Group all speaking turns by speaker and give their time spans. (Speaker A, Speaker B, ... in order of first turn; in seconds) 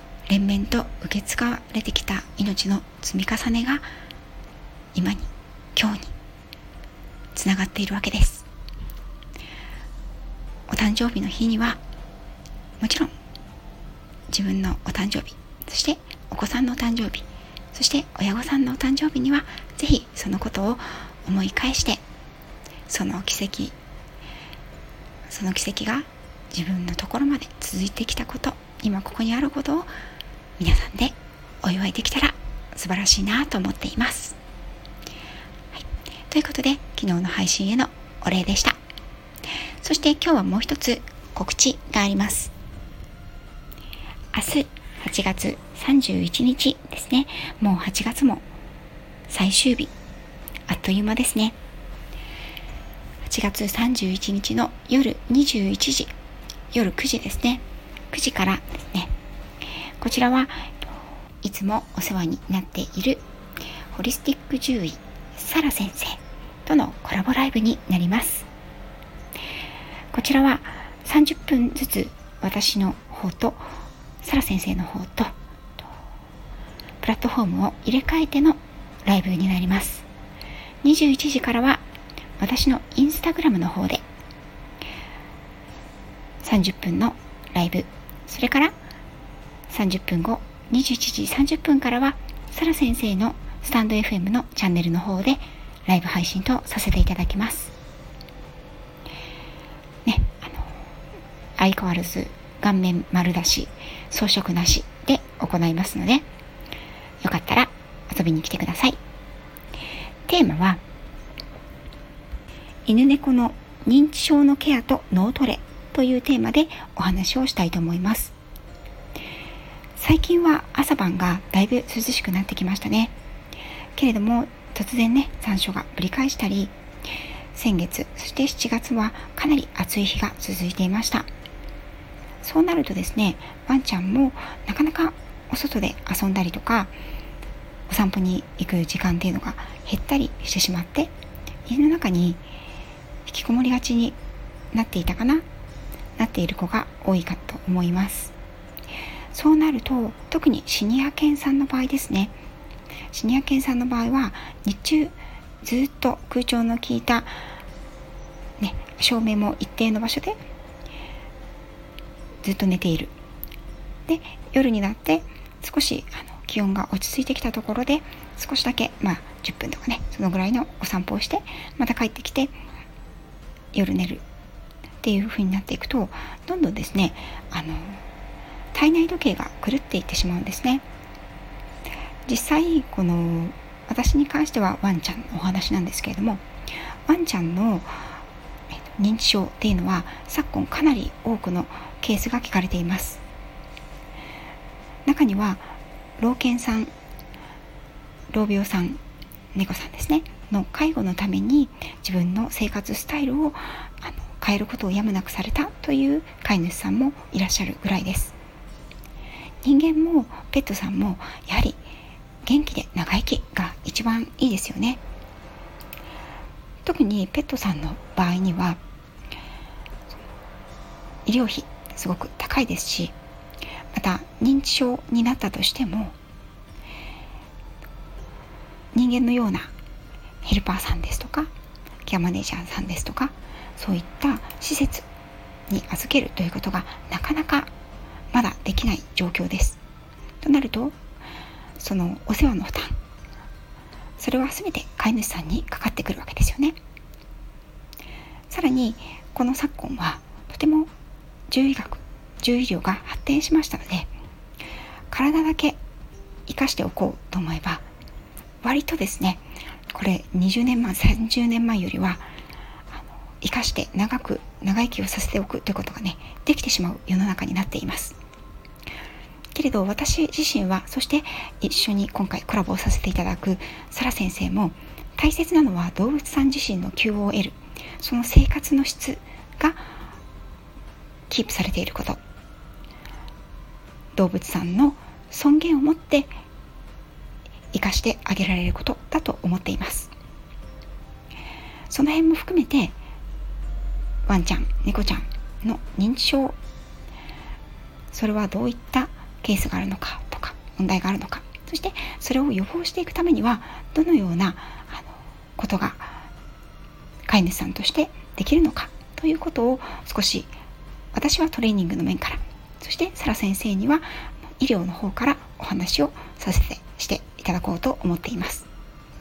Speaker A: 0.3-3.9, 4.9-6.1, 7.3-8.5, 10.7-11.8, 12.8-13.1, 14.3-22.0, 22.9-23.8, 25.3-29.9, 30.6-34.4, 35.7-38.8, 39.8-42.5, 44.3-48.5, 49.3-49.9, 50.7-51.6, 53.2-56.1, 56.7-59.1, 60.0-60.8, 61.4-63.2, 63.9-68.5, 70.1-73.7, 74.2-75.3, 77.0-80.0, 80.8-81.8, 82.4-84.0, 86.4-88.7, 89.7-97.7, 100.0-100.8, 101.6-106.3, 107.2-109.0, 110.3-110.8, 112.9-118.3, 120.0-123.1, 124.0-126.7, 127.5-131.3, 132.4-136.9, 137.9-141.1, 141.7-142.4, 143.3-144.2, 144.7-145.4, 146.2-148.3, 149.3-152.3, 153.1-157.4, 158.6-160.4, 162.4-163.1, 164.1-172.6, 173.7-174.2, 175.0-178.0, 178.7-180.8, 182.3-186.4, 187.1-188.1, 188.9-193.2, 195.1-196.9, 198.3-199.0, 199.5-208.3, 209.6-211.8, 212.4-215.0, 216.8-218.8, 221.3-223.2, 223.9-226.2, 228.9-229.7, 230.4-231.5, 232.1-235.1, 235.7-237.7, 238.3-239.8, 240.4-240.9, 241.8-243.0, 244.2-246.8, 248.5-250.9, 251.5-254.1, 255.1-255.8, 256.5-257.8, 258.6-262.2, 263.0-268.2, 269.5-279.9, 281.3-282.2, 284.1-286.3, 287.7-290.1, 291.9-292.9, 294.3-296.6, 298.1-306.2, 307.3-310.5, 311.1-318.7